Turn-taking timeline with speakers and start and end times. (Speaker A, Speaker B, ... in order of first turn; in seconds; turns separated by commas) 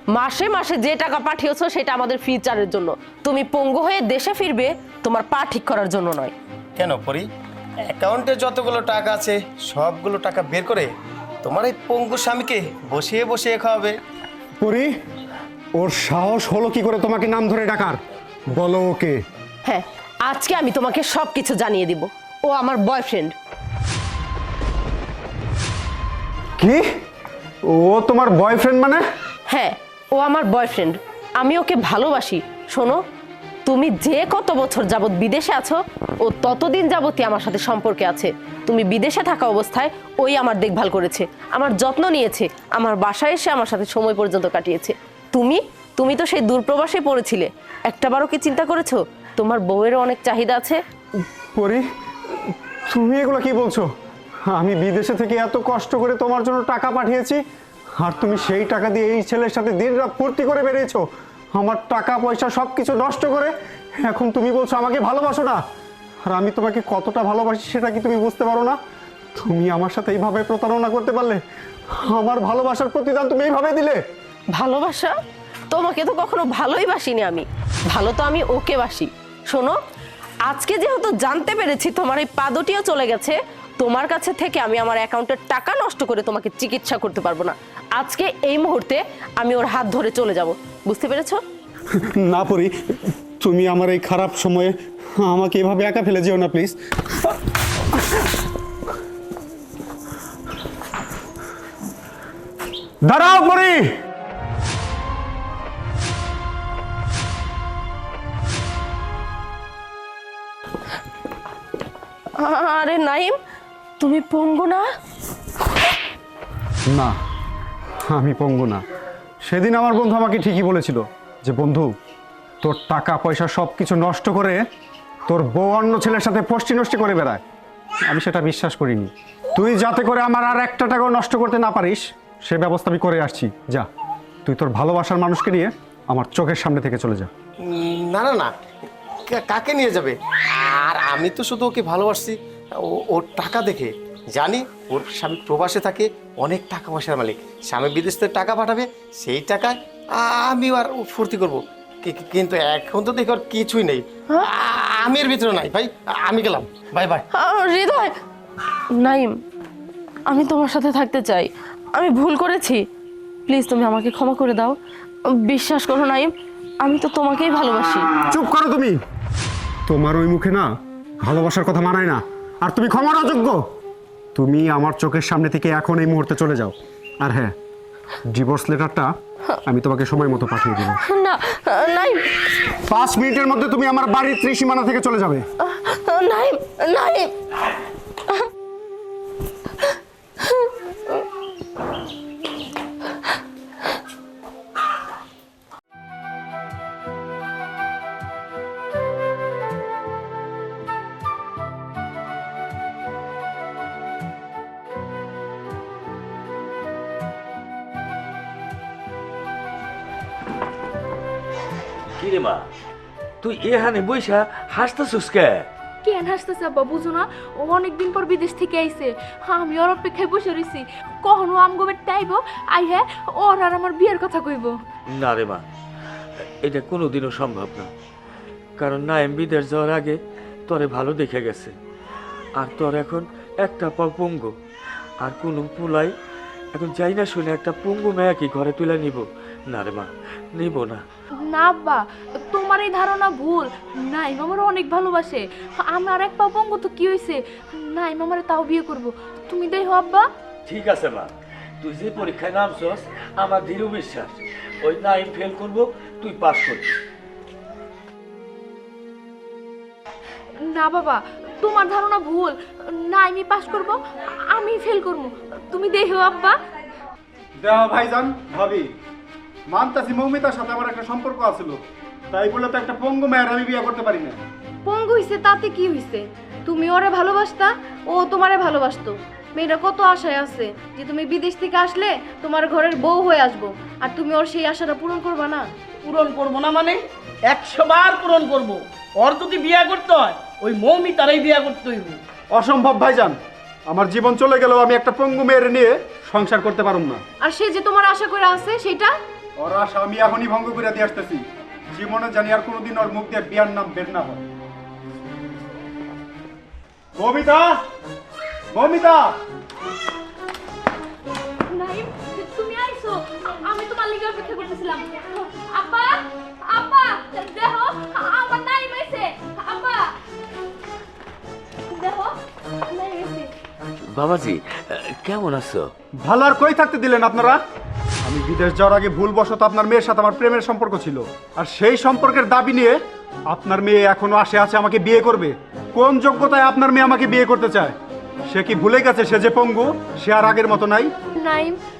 Speaker A: 0.1-6.3, Speaker B: 6.8-7.2, Speaker B: 7.9-10.9, Speaker B: 11.4-13.9, Speaker C: 14.6-14.9, Speaker C: 15.8-18.0, Speaker C: 18.6-19.1, Speaker A: 19.6-23.3, Speaker C: 27.7-29.0, Speaker A: 29.5-33.0, Speaker A: 33.6-50.8, Speaker C: 51.5-51.8, Speaker C: 52.5-53.9, Speaker C: 54.5-57.4, Speaker C: 58.0-61.0, Speaker C: 61.5-65.6, Speaker C: 66.2-68.8, Speaker C: 69.4-71.4, Speaker C: 71.9-74.0, Speaker A: 74.5-75.2, Speaker A: 75.7-79.8, Speaker A: 80.5-91.4, Speaker C: 92.2-92.7, Speaker C: 93.4-96.8, Speaker C: 103.1-103.8, Speaker A: 112.4-113.4, Speaker A: 114.0-114.9, Speaker C: 118.1-118.8, Speaker C: 119.5-121.9, Speaker C: 122.6-124.6, Speaker C: 125.3-127.4, Speaker C: 128.1-133.9, Speaker C: 134.4-137.3, Speaker B: 137.6-138.5, Speaker B: 139.3-157.2, Speaker A: 157.3-158.1, Speaker A: 158.9-159.3, Speaker A: 160.3-162.8, Speaker A: 163.5-164.8, Speaker A: 165.3-168.1, Speaker C: 168.3-168.9, Speaker C: 169.9-170.7, Speaker C: 171.2-173.6, Speaker C: 174.3-177.5, Speaker C: 178.3-179.1, Speaker C: 179.7-181.0, Speaker A: 181.1-182.3, Speaker C: 182.9-185.4, Speaker A: 185.7-187.3, Speaker D: 212.2-212.6, Speaker D: 213.4-215.7, Speaker E: 216.0-224.7, Speaker D: 225.1-225.6, Speaker D: 226.6-227.9, Speaker D: 228.8-231.7, Speaker D: 232.6-234.5, Speaker D: 235.2-236.1, Speaker D: 236.7-241.0, Speaker E: 241.4-250.2, Speaker D: 250.7-256.9, Speaker E: 260.6-266.6, Speaker F: 267.6-268.9, Speaker F: 269.7-271.8, Speaker F: 272.3-274.4, Speaker G: 274.8-285.7, Speaker H: 286.0-292.2, Speaker F: 292.5-293.4, Speaker F: 293.9-297.2, Speaker G: 297.4-299.1, Speaker F: 299.6-301.4, Speaker F: 301.9-304.4, Speaker F: 307.2-307.8, Speaker F: 308.7-309.4, Speaker E: 311.7-320.1, Speaker E: 321.9-322.3, Speaker E: 322.9-323.5, Speaker D: 324.1-325.9, Speaker F: 326.2-327.6, Speaker F: 328.2-333.0, Speaker F: 333.5-337.9, Speaker F: 338.5-341.1, Speaker E: 341.4-341.8